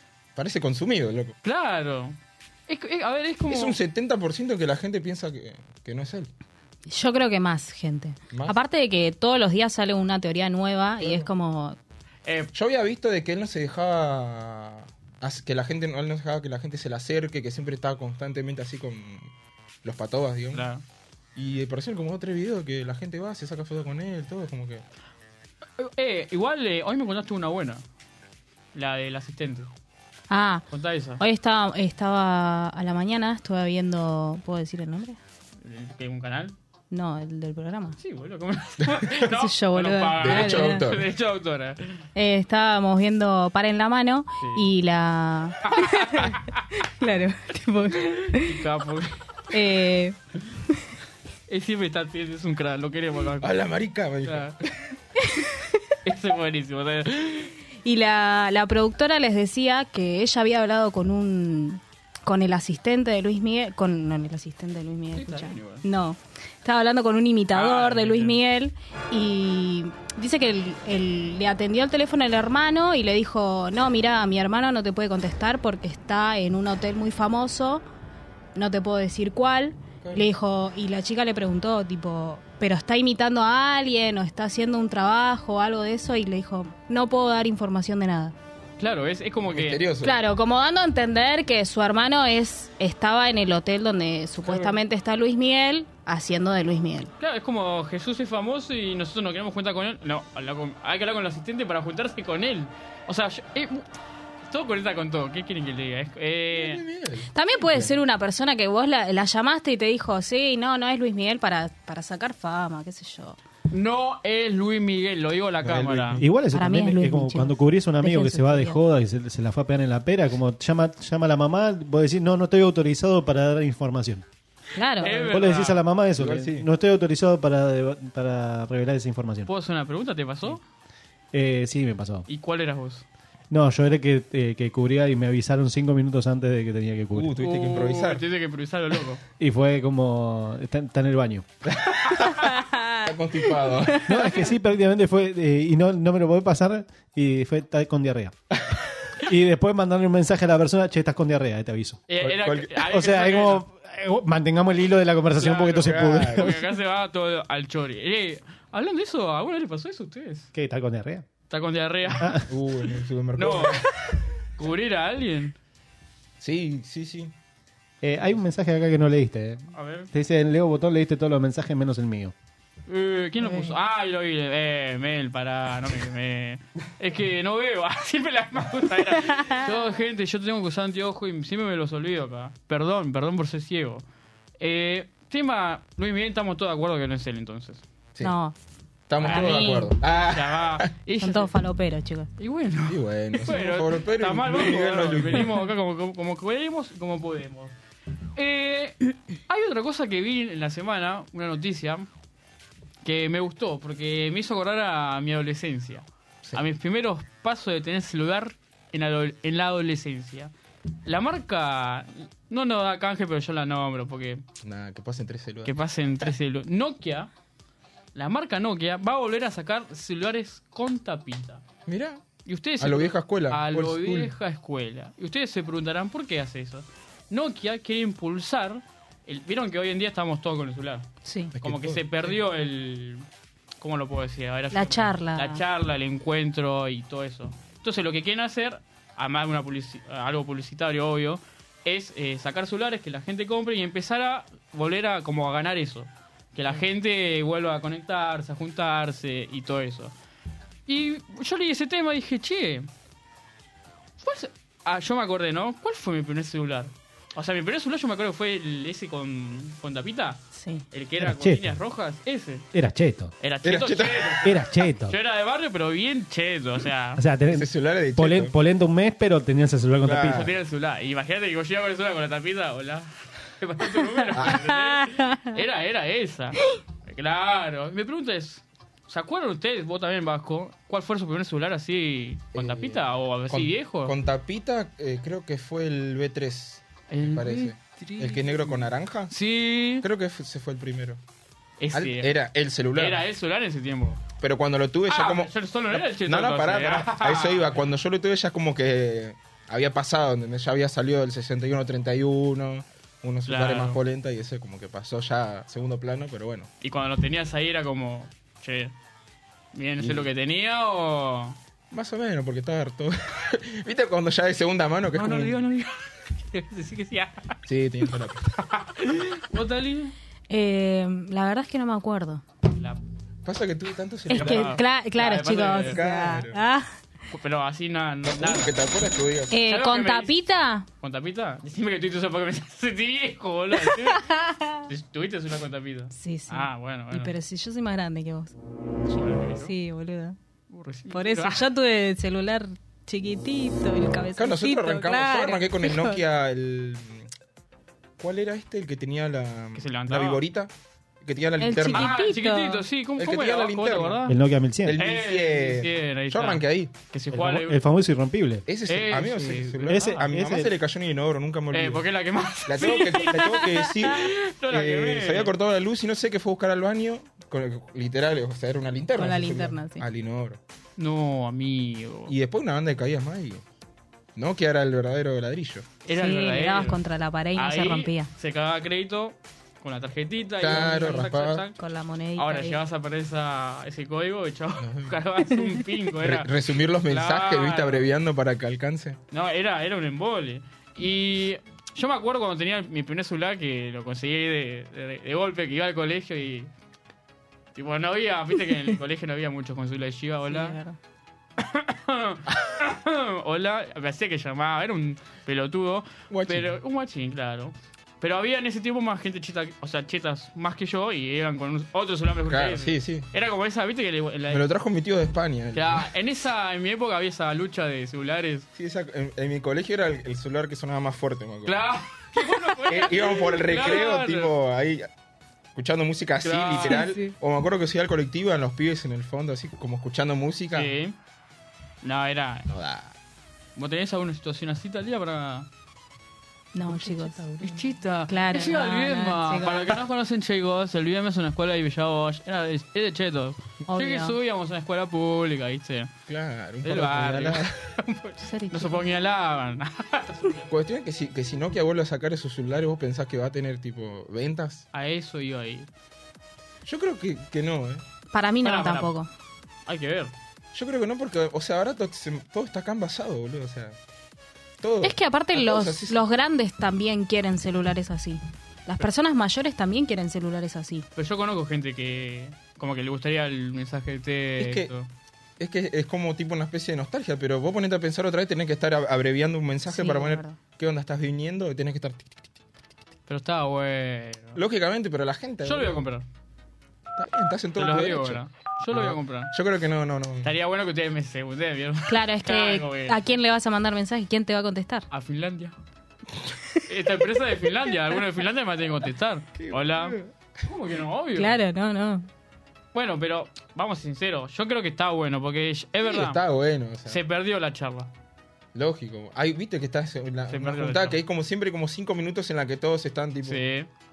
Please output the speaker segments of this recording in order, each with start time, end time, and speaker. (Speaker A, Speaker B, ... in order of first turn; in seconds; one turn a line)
Speaker A: 0.3-1.3
Speaker B: 1.4-2.1
Speaker B: 2.7-3.8
Speaker A: 3.5-6.3
Speaker C: 6.9-11.8
Speaker A: 8.3-8.6
Speaker A: 11.0-11.3
Speaker B: 12.2-12.5
Speaker A: 12.5-19.3
Speaker A: 19.8-20.7
Speaker B: 20.5-20.8
Speaker A: 21.4-24.8
Speaker B: 25.8-27.8
Speaker B: 28.7-29.7
Speaker C: 30.3-30.6
Speaker B: 30.7-31.2
Speaker C: 31.2-35.2
Speaker B: 35.6-36.5
Speaker C: 36.9-38.0
Speaker B: 38.0-42.0
Speaker A: 38.8-39.3
Speaker C: 39.3-40.9
Speaker A: 40.2-41.0
Speaker C: 42.1-48.6
Speaker B: 45.6-46.6
Speaker B: 47.9-49.2
Speaker C: 49.5-50.1
Speaker B: 51.5-53.5
Speaker A: 53.4-54.7
Speaker B: 54.2-54.6
Speaker C: 55.2-55.6
Speaker B: 56.0-57.5
Speaker C: 57.8-77.8
Speaker B: 65.1-65.8
Speaker B: 67.5-68.4
Speaker C: 78.5-88.3
Speaker A: 80.0-80.3
Speaker B: 88.8-89.8
Speaker A: 89.5-90.2
Speaker C: 90.0-97.1
Speaker B: 94.4-94.7
Speaker B: 97.2-103.8
Speaker B: 104.5-106.8
Speaker A: 106.5-107.9
Speaker C: 107.3-113.4
Speaker B: 113.7-116.2
Speaker A: 115.6-116.3
Speaker D: 116.2-124.2
Speaker C: 116.5-118.8
Speaker C: 124.8-125.3
Speaker B: 125.0-125.8
Speaker D: 125.1-129.5
Speaker A: 126.2-126.7
Speaker B: 129.5-130.6
Speaker D: 131.3-132.2
Speaker B: 132.3-133.0
Speaker D: 133.5-137.3
Speaker A: 137.1-138.2
Speaker B: 137.4-139.2
Speaker D: 139.4-141.4
Speaker A: 141.7-142.5
Speaker C: 142.6-143.0
Speaker A: 143.0-144.4
Speaker D: 144.1-148.3
Speaker D: 149.2-152.0
Speaker B: 152.1-153.6
Speaker A: 152.2-152.9
Speaker D: 152.8-156.6
Speaker B: 155.4-160.5
Speaker A: 155.8-156.6
Speaker D: 160.5-161.2
Speaker B: 161.5-162.4
Speaker D: 162.2-162.4
Speaker A: 162.5-164.1
Speaker B: 163.3-163.8
Speaker B: 164.6-165.5
Speaker A: 166.4-167.3
Speaker D: 168.0-172.3
Speaker B: 169.7-170.1
Speaker B: 172.9-184.0
Speaker C: 173.4-173.8
Speaker B: 184.6-187.8
Speaker C: 188.2-188.5
Speaker A: 189.1-190.8
Speaker B: 189.2-191.5
Speaker C: 189.2-189.9
Speaker C: 191.2-192.3
Speaker B: 192.4-197.7
Speaker A: 192.9-195.5
Speaker B: 198.3-202.1
Speaker B: 203.0-210.5
Speaker B: 211.0-214.4
Speaker A: 214.6-216.3
Speaker B: 215.6-217.3
Speaker B: 218.1-221.6
Speaker A: 221.8-222.2
Speaker B: 222.4-231.1
Speaker A: 222.8-224.3
Speaker C: 231.2-231.5
Speaker A: 231.5-232.4
Speaker B: 231.6-233.2
Speaker B: 233.8-250.1
Speaker C: 234.7-235.6
Speaker B: 250.9-252.9
Speaker B: 254.2-262.7
Speaker C: 260.5-260.8
Speaker D: 261.2-261.8
Speaker D: 262.7-263.3
Speaker B: 263.4-267.2
Speaker A: 263.6-264.5
Speaker D: 264.4-265.1
Speaker D: 267.1-270.5
Speaker A: 267.5-268.5
Speaker A: 270.0-270.5
Speaker B: 270.2-284.1
Speaker A: 274.3-274.7
Speaker C: 275.2-275.5
Speaker A: 282.5-289.3
Speaker B: 287.1-290.0
Speaker A: 290.0-291.2
Speaker B: 291.8-292.3
Speaker A: 291.9-293.2
Speaker B: 292.9-294.2
Speaker A: 294.4-306.7
Speaker B: 295.1-297.8
Speaker B: 303.5-304.0
Speaker B: 306.8-308.9
Speaker B: 309.7-311.6
Speaker A: 310.0-310.3
Speaker A: 311.9-315.6
Speaker B: 315.1-317.6
Speaker A: 317.7-318.5
Speaker B: 318.6-320.1
Speaker C: 320.5-322.4
Speaker B: 322.7-323.0
Speaker A: 323.4-324.8
Speaker C: 324.3-326.9
Speaker B: 324.3-326.0
Speaker A: 325.5-326.6
Speaker B: 327.3-328.7
Speaker A: 328.2-329.5
Speaker C: 329.5-330.8
Speaker B: 329.6-330.3
Speaker B: 331.0-334.3
Speaker C: 333.8-334.8
Speaker B: 334.9-337.3
Speaker C: 336.1-338.5
Speaker B: 339.1-339.7
Speaker C: 339.5-340.4
Speaker B: 340.7-341.6
Speaker C: 341.1-346.2
Speaker A: 344.3-347.3
Speaker A: 348.2-352.1
Speaker B: 349.7-350.4
Speaker C: 351.6-352.8
Speaker B: 351.9-354.3
Speaker A: 353.2-354.3
Speaker D: 354.3-355.0
Speaker A: 354.8-357.6
Speaker B: 355.0-357.8
Speaker D: 357.5-358.6
Speaker A: 358.6-362.0
Speaker B: 358.9-360.2
Speaker D: 359.9-360.7
Speaker B: 361.7-365.5
Speaker A: 362.7-370.6
Speaker C: 369.1-370.0
Speaker B: 371.0-372.3
Speaker A: 372.3-373.6
Speaker A: 374.4-375.9
Speaker B: 376.1-377.0
Speaker C: 376.1-378.3
Speaker B: 377.5-381.8
Speaker A: 380.6-381.6
Speaker C: 381.8-382.8
Speaker B: 382.4-386.5
Speaker A: 384.8-385.2
Speaker A: 386.2-389.2
Speaker B: 387.0-388.1
Speaker B: 389.3-396.7
Speaker B: 397.7-400.8
Speaker C: 400.5-400.9
Speaker B: 401.6-414.6
Speaker A: 406.3-406.7
Speaker A: 412.5-413.3
Speaker A: 414.5-416.1
Speaker B: 415.7-418.7
Speaker A: 418.8-421.8
Speaker B: 421.6-424.5
Speaker A: 422.9-425.1
Speaker A: 425.7-430.9
Speaker B: 426.4-427.1
Speaker C: 426.9-427.3
Speaker B: 430.7-431.1
Speaker B: 432.0-432.7
Speaker A: 432.7-433.1
Speaker B: 433.8-435.7
Speaker C: 436.7-440.0
Speaker B: 437.6-446.1
Speaker C: 443.9-444.3
Speaker A: 446.3-447.8
Speaker B: 446.8-450.7
Speaker C: 448.4-449.1
Speaker A: 450.7-454.9
Speaker B: 454.9-455.9
Speaker A: 456.8-458.0
Speaker C: 458.3-459.3
Speaker B: 458.6-459.1
Speaker B: 459.9-460.3
Speaker A: 460.7-464.0
Speaker A: 464.8-466.3
Speaker C: 465.0-471.1
Speaker B: 471.1-475.1
Speaker A: 474.6-474.9
Speaker A: 475.6-482.4
Speaker C: 479.9-480.6
Speaker B: 483.3-484.6
Speaker A: 484.6-485.9
Speaker B: 485.6-486.2
Speaker A: 487.2-490.5
Speaker B: 487.8-489.5
Speaker B: 490.4-493.2
Speaker C: 492.1-495.1
Speaker B: 495.1-495.7
Speaker B: 496.9-501.6
Speaker A: 499.6-500.2
Speaker C: 501.3-502.3
Speaker B: 502.9-506.4
Speaker A: 506.0-507.2
Speaker B: 507.1-508.1
Speaker A: 508.7-513.6
Speaker B: 510.5-511.2
Speaker B: 513.4-513.9